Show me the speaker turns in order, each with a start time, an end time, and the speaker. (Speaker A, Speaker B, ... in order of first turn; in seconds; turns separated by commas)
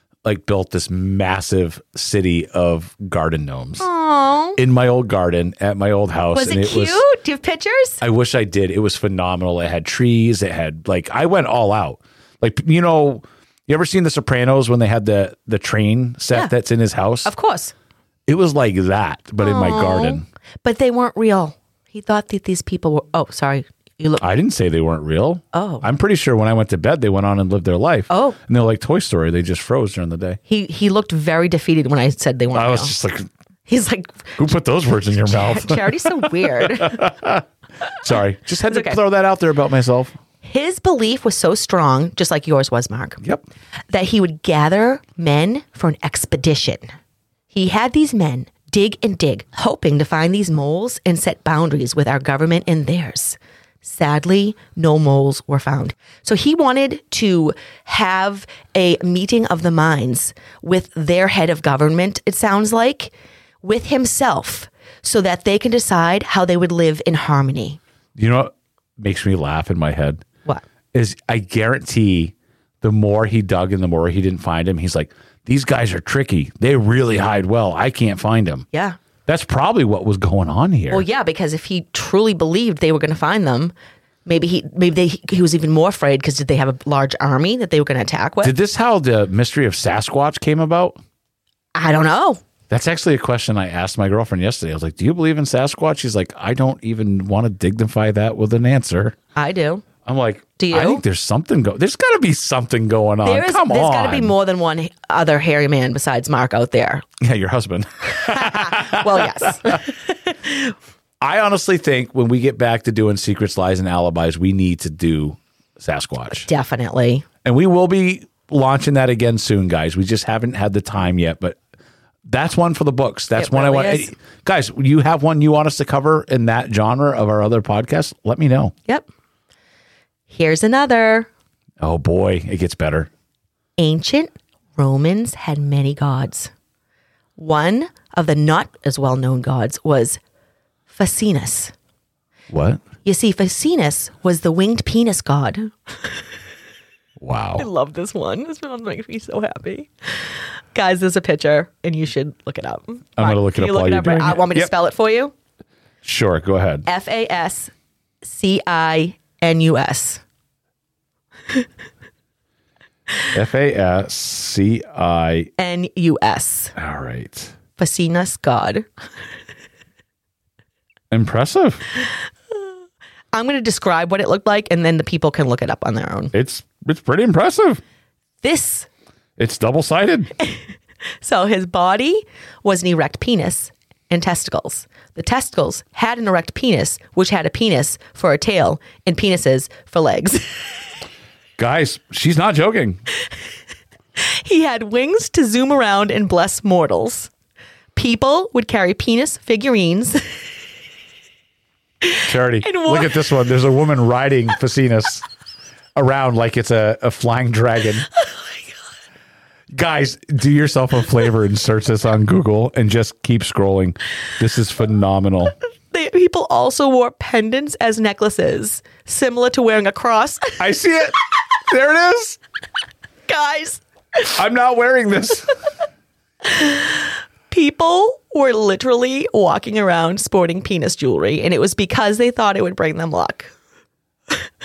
Speaker A: 0.2-3.9, Speaker B: 3.8-4.6, Speaker A: 4.6-7.0, Speaker B: 6.3-8.0, Speaker A: 8.0-17.3, Speaker B: 17.2-17.7, Speaker A: 18.3-20.2, Speaker B: 19.4-24.3, Speaker A: 24.2-30.4, Speaker B: 25.5-25.8, Speaker B: 28.1-28.4, Speaker B: 30.5-32.9, Speaker A: 32.5-33.3, Speaker B: 33.7-34.5, Speaker A: 34.4-37.4, Speaker B: 35.2-37.1, Speaker A: 38.0-40.2, Speaker B: 38.7-39.0, Speaker B: 40.4-43.2, Speaker B: 43.9-46.8, Speaker B: 47.5-67.8, Speaker A: 68.2-70.2, Speaker A: 70.9-78.7, Speaker B: 78.7-79.0, Speaker A: 79.2-81.0, Speaker B: 80.9-83.7, Speaker B: 84.2-88.5, Speaker A: 88.4-91.0, Speaker B: 91.7-92.4, Speaker A: 92.7-99.2, Speaker B: 99.3-99.8, Speaker A: 100.0-104.3, Speaker B: 100.6-101.0, Speaker B: 103.2-107.1, Speaker A: 107.2-109.8, Speaker B: 108.2-110.7, Speaker A: 111.2-116.5, Speaker B: 116.4-117.2, Speaker A: 117.4-121.6, Speaker A: 122.2-128.7, Speaker B: 123.3-124.1, Speaker B: 130.3-131.3, Speaker A: 131.8-133.1, Speaker B: 133.8-136.5, Speaker B: 137.4-140.2, Speaker B: 140.9-141.7, Speaker A: 142.5-142.8, Speaker B: 143.1-146.1, Speaker A: 147.2-147.7, Speaker B: 147.6-155.3, Speaker A: 153.2-154.7, Speaker A: 156.0-156.8, Speaker B: 156.8-157.7, Speaker B: 158.2-160.2, Speaker A: 163.3-165.5, Speaker B: 165.6-166.7, Speaker A: 166.8-167.6, Speaker B: 167.8-168.9, Speaker A: 171.1-171.8, Speaker B: 173.3-176.3, Speaker A: 176.3-177.8, Speaker B: 178.4-178.9, Speaker A: 179.4-180.3, Speaker B: 181.2-190.5, Speaker A: 191.6-193.0, Speaker B: 194.2-197.3, Speaker B: 197.9-200.2, Speaker B: 202.0-203.2, Speaker A: 202.2-205.2, Speaker A: 205.9-208.1, Speaker A: 209.7-215.6, Speaker B: 215.9-220.6, Speaker A: 220.6-222.4, Speaker B: 223.3-224.3, Speaker A: 224.3-225.5, Speaker B: 226.4-233.5